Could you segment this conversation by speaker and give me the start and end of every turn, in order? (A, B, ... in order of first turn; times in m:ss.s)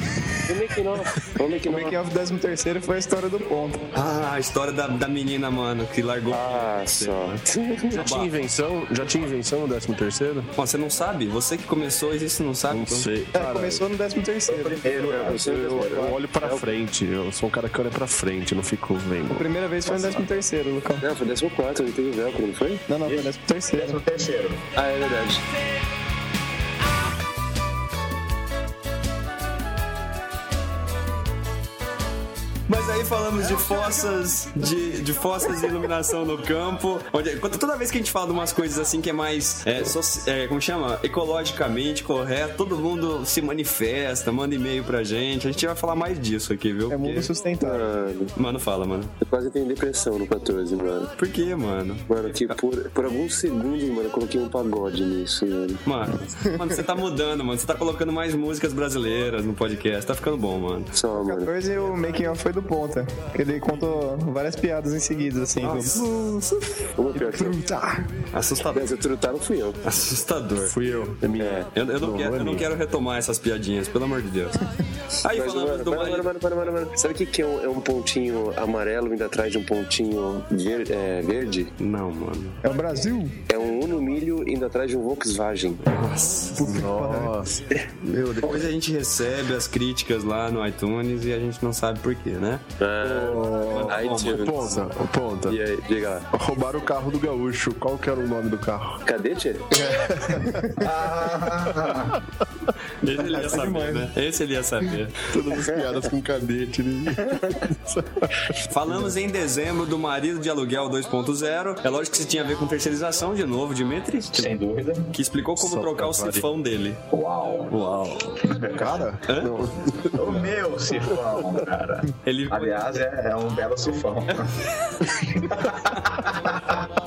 0:00.4-0:02.0 A
0:01.6-0:03.9 B
0:03.9-0:08.3 C
0:06.3-0:08.1 A
0:07.9-0:10.5 D
0:10.6-0:13.1 C
0:12.7-0:13.8 D
0:13.3-0:14.8 B
0:14.5-0:16.0 E
0:15.1-0:19.4 D
0:15.1-0:16.7 A
0:19.3-0:21.1 B
0:21.0-0:22.8 A
0:22.9-0:24.0 B
0:23.0-0:24.6 E
0:24.8-0:25.4 A
0:32.7-0:47.3 C
0:46.9-0:47.9 B
0:47.6-0:48.3 A
0:48.3-0:49.1 C
0:49.2-0:51.1 A
0:51.2-0:52.6 C
0:52.1-0:55.8 A
0:55.8-1:00.9 C
1:00.9-1:01.5 A
1:01.1-1:06.1 B
1:05.6-1:06.6 C
1:07.0-1:07.6 A
1:07.1-1:08.1 B
1:08.3-1:08.9 C
1:08.7-1:09.8 A
1:09.8-1:10.7 C
1:10.6-1:12.7 D
1:11.4-1:11.7 A
1:11.7-1:14.5 C
1:15.2-1:16.3 C
1:15.3-1:21.7 A
1:21.8-1:22.6 C
1:22.6-1:23.4 B
1:23.5-1:25.8 A
1:25.9-1:26.8 C
1:26.6-1:27.7 D
1:26.6-1:27.3 B
1:28.0-1:32.6 C
1:32.8-1:34.8 A
1:33.0-1:35.6 D
1:33.7-1:34.7 C
1:35.5-1:36.3 A
1:36.3-1:39.0 D
1:39.0-1:39.8 A
1:39.7-1:40.7 D
1:40.8-1:42.1 E
1:43.0-1:45.2 C
1:43.1-1:44.1 B
1:45.3-1:49.1 D
1:48.7-1:54.5 C
1:54.3-1:55.1 E
1:55.1-1:57.0 C
1:55.6-1:56.4 D
1:57.1-1:57.7 E
1:57.7-1:58.4 C
1:58.4-1:59.0 E
1:58.8-2:00.5 D
1:59.3-1:59.5 C
2:00.2-2:04.6 E
2:01.1-2:01.5 D
2:02.2-2:03.0 C
2:05.3-2:06.7 E